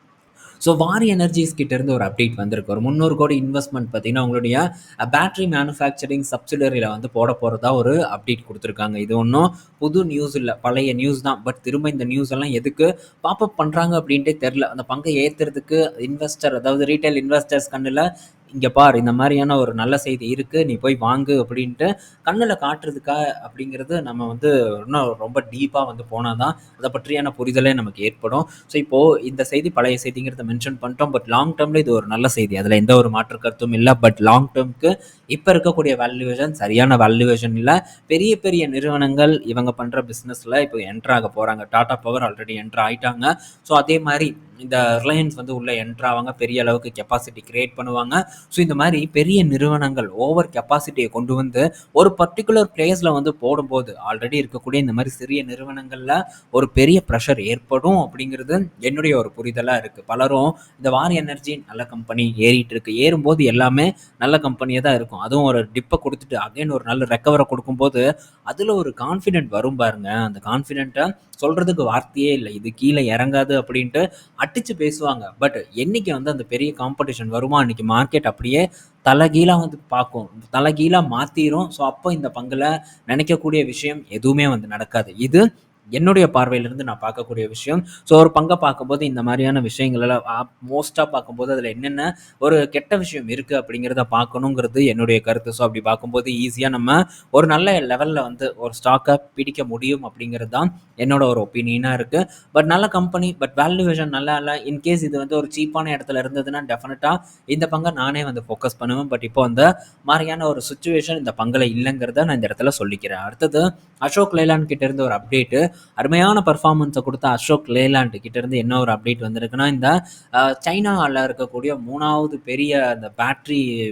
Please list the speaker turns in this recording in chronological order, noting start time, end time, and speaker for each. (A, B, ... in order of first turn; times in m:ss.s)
0:00.6-1:25.4 A
1:26.0-2:03.6 A